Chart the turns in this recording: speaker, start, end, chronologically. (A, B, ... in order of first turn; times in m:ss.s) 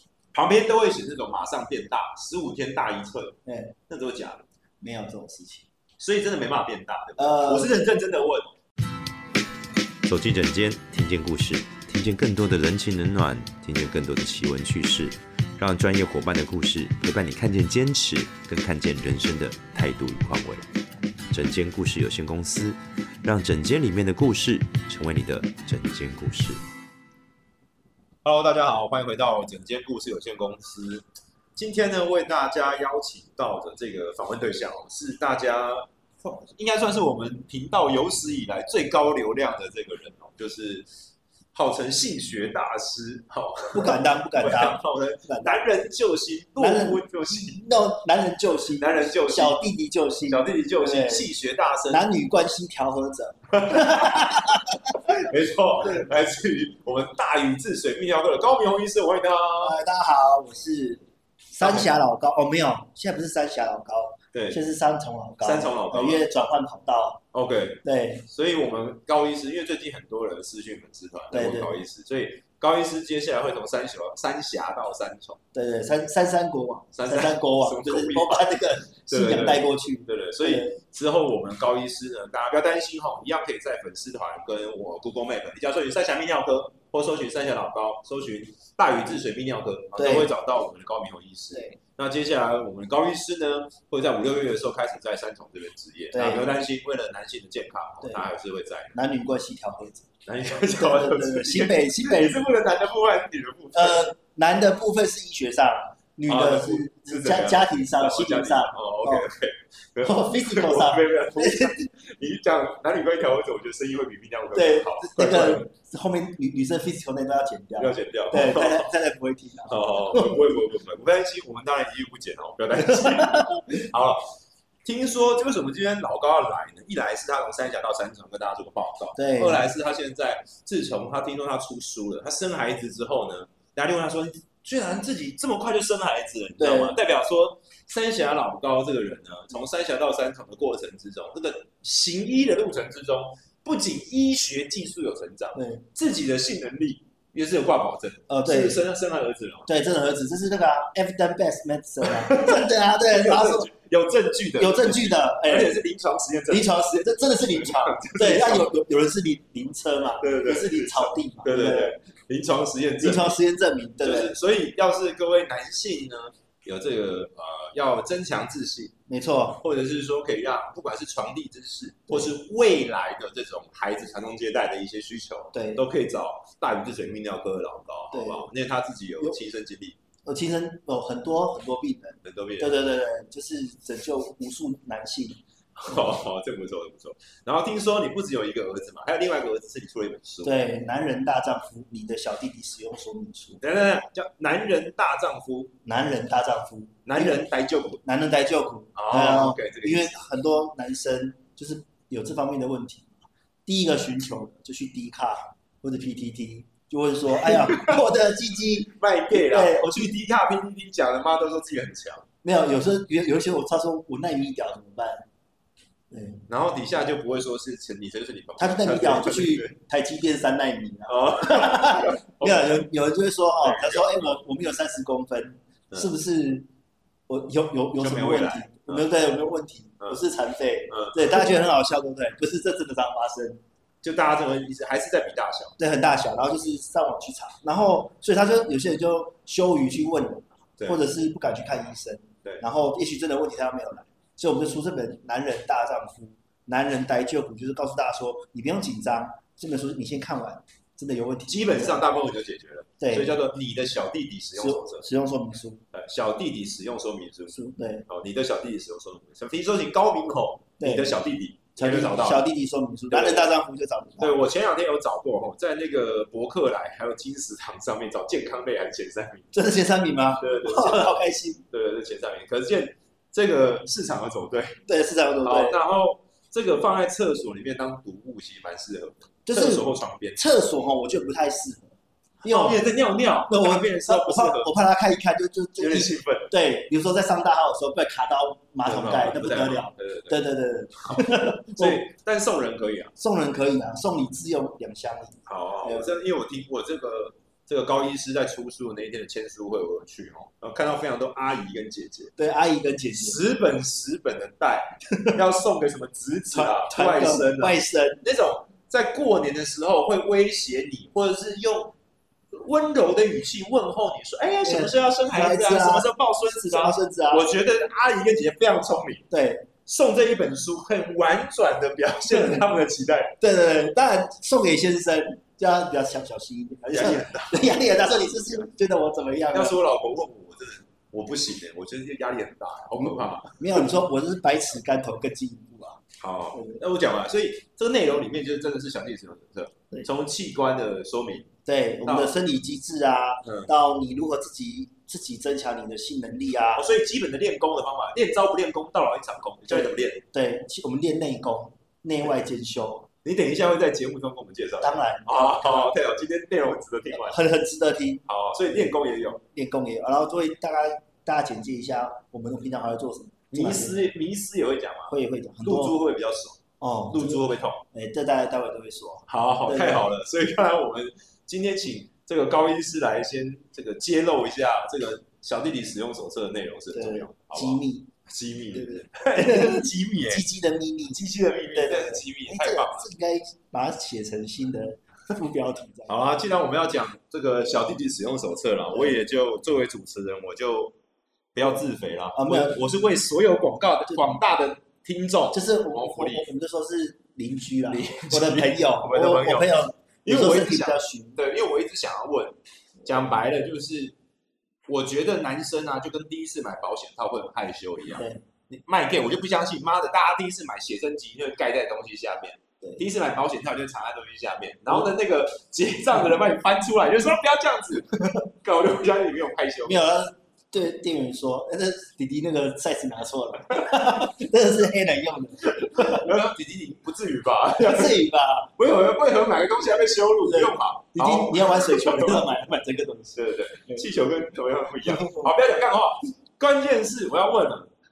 0:00.3-0:03.4 A
0:03.4-0:03.7 B
0:03.9-0:04.4 A
0:04.8-0:05.7 B
0:06.0-0:08.5 A
0:07.2-0:07.9 B
0:10.1-0:20.6 C
0:21.3-0:26.6 C
0:28.2-0:31.0 A
0:31.6-0:40.9 A
0:41.5-0:47.6 A
0:43.7-0:45.6 B
0:46.6-0:51.3 B
0:48.8-0:49.6 A
0:50.3-0:52.0 A
0:51.9-0:55.0 B
0:53.5-0:59.8 A
0:59.6-1:07.2 B
1:01.6-1:01.9 A
1:04.3-1:04.6 A
1:05.4-1:06.2 A
1:07.3-1:15.4 A
1:07.8-1:08.2 B
1:11.3-1:11.8 B
1:15.5-1:20.7 B
1:16.9-1:18.5 A
1:19.0-1:39.0 A
1:30.0-1:30.3 B
1:31.5-1:31.8 B
1:36.1-1:36.5 B
1:38.9-1:42.4 B
1:40.2-1:44.1 A
1:43.7-1:49.3 B
1:46.3-1:55.7 A
1:50.0-1:51.7 B
1:54.5-2:00.5 B
1:57.8-1:58.9 A
1:59.7-2:04.2 A
2:02.8-2:03.7 B
2:04.8-2:29.7 A
2:09.2-2:09.6 B
2:16.6-2:17.0 B
2:25.5-2:25.8 B
2:28.3-2:28.8 B
2:29.7-2:33.7 B
2:32.0-2:36.8 A
2:34.6-2:35.8 B
2:36.5-2:41.9 B
2:37.4-2:38.7 A
2:40.2-2:43.4 A
2:43.0-2:44.3 B
2:44.0-2:48.9 A
2:49.1-2:49.6 B
2:49.6-3:00.0 A
2:55.5-2:55.8 B
2:58.1-2:58.5 B
3:00.2-3:05.4 B
3:02.2-3:02.7 A
3:05.8-3:10.5 A
3:10.4-3:13.6 B
3:13.6-3:15.7 A
3:15.8-3:17.4 B
3:17.0-3:18.0 A
3:18.0-3:30.1 B
3:18.9-3:20.2 A
3:27.3-3:28.0 A
3:29.0-3:32.3 A
3:32.4-3:35.2 B
3:36.1-3:36.4 B
3:36.5-3:39.7 A
3:38.6-3:46.7 B
3:41.1-3:42.8 A
3:43.6-3:44.4 A
3:47.3-3:53.6 B
3:48.0-3:49.1 A
3:50.9-3:51.5 A
3:54.0-3:55.8 A
3:55.8-4:12.0 B
4:11.5-4:15.1 A
4:13.0-4:13.3 B
4:14.6-4:15.8 B
4:15.9-4:22.5 A
4:17.5-4:18.0 B
4:20.8-4:21.1 B
4:21.8-4:24.4 B
4:23.1-4:23.5 A
4:24.2-4:29.5 A
4:29.5-4:31.6 B
4:30.4-4:31.1 A
4:31.7-4:34.8 A
4:34.9-4:35.8 B
4:35.4-4:40.4 A
4:39.5-4:41.9 B
4:42.4-4:44.7 A
4:42.4-4:42.8 B
4:43.5-4:52.0 B
4:45.8-4:46.5 A
4:48.8-4:50.4 A
4:51.0-4:53.1 A
4:53.2-4:56.1 B
4:55.5-5:02.3 A
5:02.4-5:03.4 B
5:03.1-5:11.9 A
5:06.5-5:08.2 B
5:12.5-5:19.2 A
5:14.6-5:16.1 B
5:16.6-5:17.5 B
5:19.3-5:19.7 B
5:19.8-5:23.4 A
5:22.3-5:22.6 B
5:23.4-5:29.8 B
5:26.9-5:27.6 A
5:29.5-5:33.8 A
5:33.0-5:36.0 B
5:36.2-5:41.5 A
5:36.5-5:36.8 B
5:41.6-5:46.8 B
5:42.0-5:42.4 A
5:43.4-5:43.7 A
5:46.8-5:50.2 A
5:49.7-5:53.1 B
5:53.2-5:57.4 A
5:54.8-5:55.9 B
5:57.1-5:58.2 B
5:58.3-5:59.4 A
5:59.5-6:04.1 B
6:03.5-6:07.8 A
6:05.1-6:06.0 B
6:06.8-6:10.1 B
6:09.3-6:20.4 A
6:16.9-6:18.1 B
6:18.7-6:21.2 B
6:21.1-6:23.1 A
6:21.7-6:26.2 B
6:26.1-6:30.9 A
6:31.5-6:36.4 A
6:32.4-6:32.8 B
6:35.5-6:41.4 B
6:37.9-6:44.1 A
6:44.9-7:00.0 A
6:48.2-6:48.4 B
6:59.8-7:06.3 B
7:05.7-7:08.2 A
7:07.8-7:08.7 B
7:08.8-7:12.5 A
7:10.4-7:14.0 B
7:13.3-7:17.9 A
7:15.1-7:15.5 B